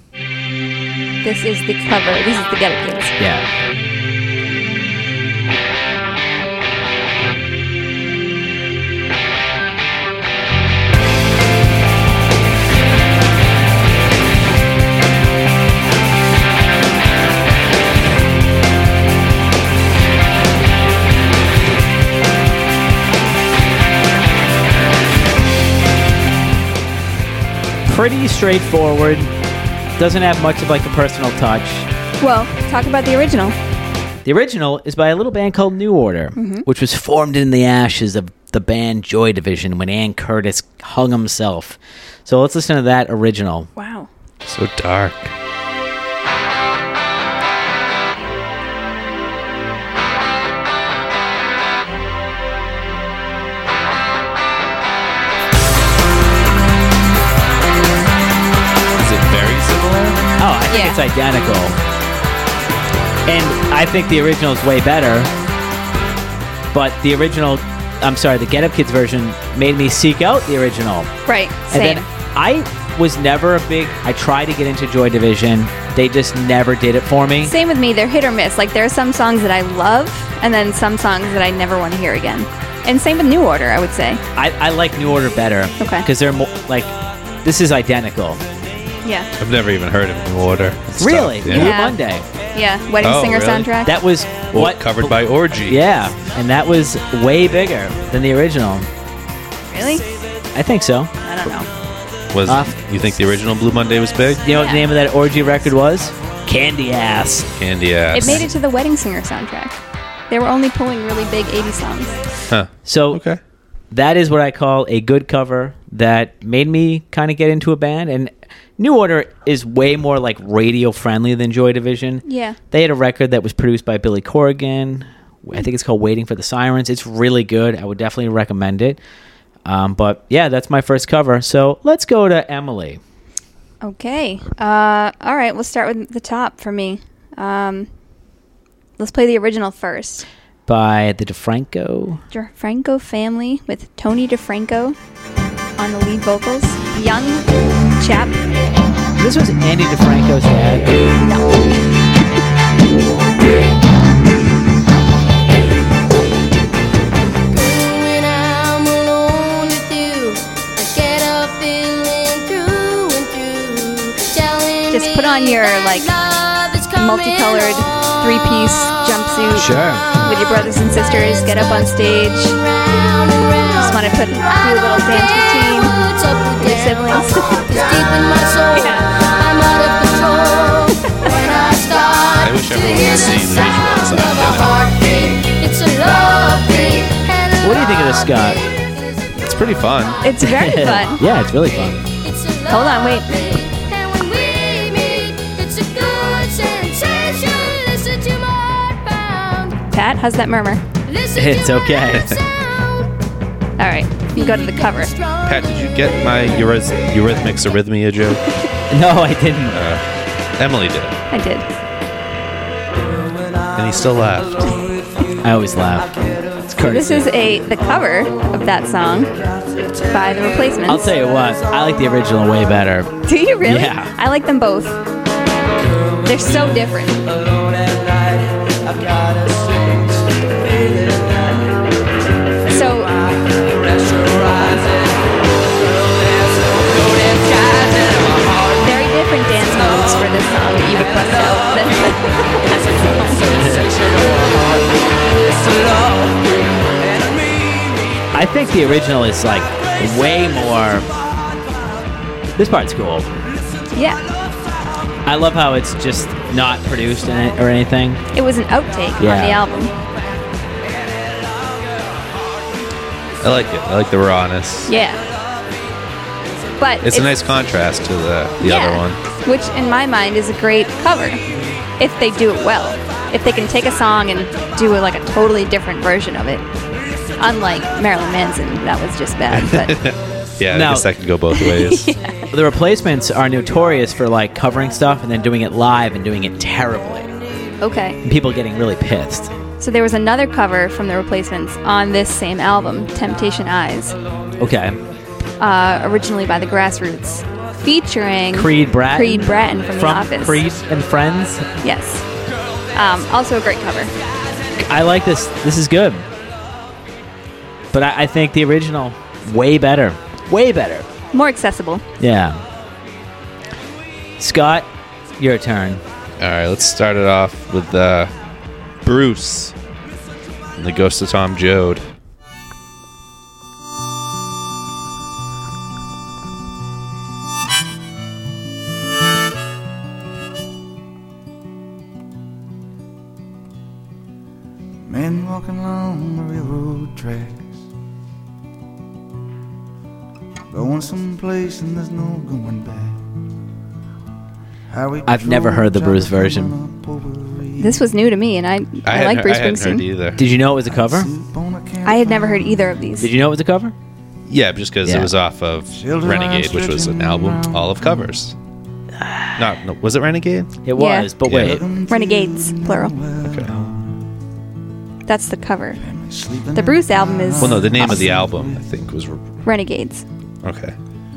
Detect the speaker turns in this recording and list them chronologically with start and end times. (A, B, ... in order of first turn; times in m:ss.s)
0:01.2-0:03.1 A
0:03.2-0:03.4 B
0:27.9-0:29.3 B
0:30.0-0:31.9 B
0:32.2-0:33.6 A
0:34.2-0:43.7 B
0:36.4-0:36.7 A
0:43.8-0:44.1 A
0:44.4-0:45.3 C
0:59.0-1:00.3 C
1:00.4-1:01.8 B
1:00.7-1:01.0 A
1:03.3-1:05.3 B
1:06.7-1:11.1 B
1:11.3-1:12.0 A
1:11.7-1:17.5 B
1:17.4-1:24.2 A
1:24.4-1:28.4 B
1:25.8-1:26.1 A
1:29.0-1:29.3 A
1:29.4-1:31.8 C
1:31.0-1:32.2 B
1:31.5-1:32.0 A
1:32.5-1:33.9 A
1:33.0-1:33.7 C
1:33.8-1:38.9 B
1:34.5-1:35.8 C
1:39.7-1:40.0 A
1:40.6-1:41.1 B
1:41.2-1:41.7 A
1:42.3-1:44.5 C
1:42.5-1:42.8 B
1:44.4-1:47.5 B
1:44.5-1:44.9 A
1:47.6-1:48.4 C
1:48.1-1:49.8 A
1:50.3-1:52.2 A
1:52.5-1:53.4 C
1:52.8-1:53.2 B
1:53.9-2:09.0 B
2:02.2-2:02.6 A
2:09.7-2:13.0 B
2:13.8-2:17.9 A
2:19.0-2:20.2 A
2:20.7-2:22.2 B
2:22.3-2:25.0 A
2:25.8-2:28.4 A
2:29.2-2:30.9 B
2:31.2-2:31.5 A
2:37.5-2:47.8 D
2:44.9-2:46.1 A
2:46.9-2:52.6 A
2:49.5-2:50.1 B
2:50.2-2:51.6 D
2:52.6-3:03.5 D
2:53.7-2:56.0 A
2:56.6-2:57.7 A
2:58.7-2:59.1 A
3:02.4-3:04.8 C
3:04.3-3:08.3 D
3:07.6-3:08.6 B
3:09.4-3:10.2 C
3:10.2-3:11.2 A
3:10.4-3:12.0 B
3:12.3-3:19.8 D
3:12.7-3:13.5 A
3:19.9-3:20.8 A
3:21.1-3:21.6 D
3:21.3-3:22.4 B
3:22.1-3:22.4 C
3:23.8-3:25.1 A
3:24.4-3:25.2 D
3:25.4-3:28.4 C
3:28.9-3:29.8 B
3:29.7-3:30.0 C
3:30.6-3:31.2 C
3:31.3-3:31.7 A
3:33.8-3:34.7 C
3:35.4-3:36.1 B
3:36.6-3:37.3 B
3:36.8-3:39.3 A
3:40.1-3:41.1 A
3:40.9-3:43.1 B
3:43.3-3:45.0 A
3:43.6-3:44.1 B
3:46.2-3:47.2 A
3:52.7-3:53.1 A
3:58.8-4:03.5 A
4:03.5-4:03.9 B
4:08.3-4:11.1 B
4:12.6-4:13.3 B
4:13.9-4:14.2 A
4:15.3-4:18.2 B
4:18.3-4:19.9 A
4:19.2-4:19.6 B
4:23.4-4:24.9 C
4:24.9-4:25.2 A
4:26.8-4:27.3 A
4:27.0-4:29.2 C
4:28.6-4:31.4 A
4:32.0-4:36.6 A
4:37.4-4:39.9 A
4:39.5-4:42.1 C
4:40.7-4:41.1 B
4:41.5-4:42.5 A
4:42.5-4:47.3 B
4:47.8-4:48.2 A
4:48.2-4:49.5 B
4:49.8-4:54.2 A
4:54.6-4:55.0 B
4:55.6-5:00.6 A
4:58.5-5:01.7 B
5:01.8-5:02.2 A
5:02.9-5:04.1 A
5:04.8-5:06.3 B
5:07.9-5:11.1 B
5:11.3-5:12.0 A
5:12.2-5:12.6 B
5:14.4-5:14.9 B
5:15.4-5:16.0 B
5:16.4-5:18.3 C
5:19.0-5:19.8 C
5:20.8-5:22.1 C
5:35.1-5:37.8 E
5:40.7-5:43.2 E
5:44.9-5:48.0 E
5:45.3-5:46.8 B
5:47.8-5:50.0 A
5:49.1-5:50.4 C
5:50.4-5:51.3 B
5:50.5-5:53.0 E
5:52.0-5:53.3 A
5:53.2-5:54.0 B
5:54.5-5:58.6 C
5:55.0-5:55.3 B
5:55.9-5:58.2 E
5:59.2-5:59.6 B
5:59.6-6:00.7 C
6:00.9-6:01.8 B
6:01.0-6:01.3 A
6:01.5-6:01.8 C
6:01.6-6:04.1 E
6:02.1-6:03.2 A
6:03.4-6:03.8 C
6:05.3-6:06.0 A
6:06.0-6:08.9 E
6:06.7-6:08.0 A
6:07.6-6:09.4 C
6:09.6-6:10.2 A
6:10.6-6:11.0 C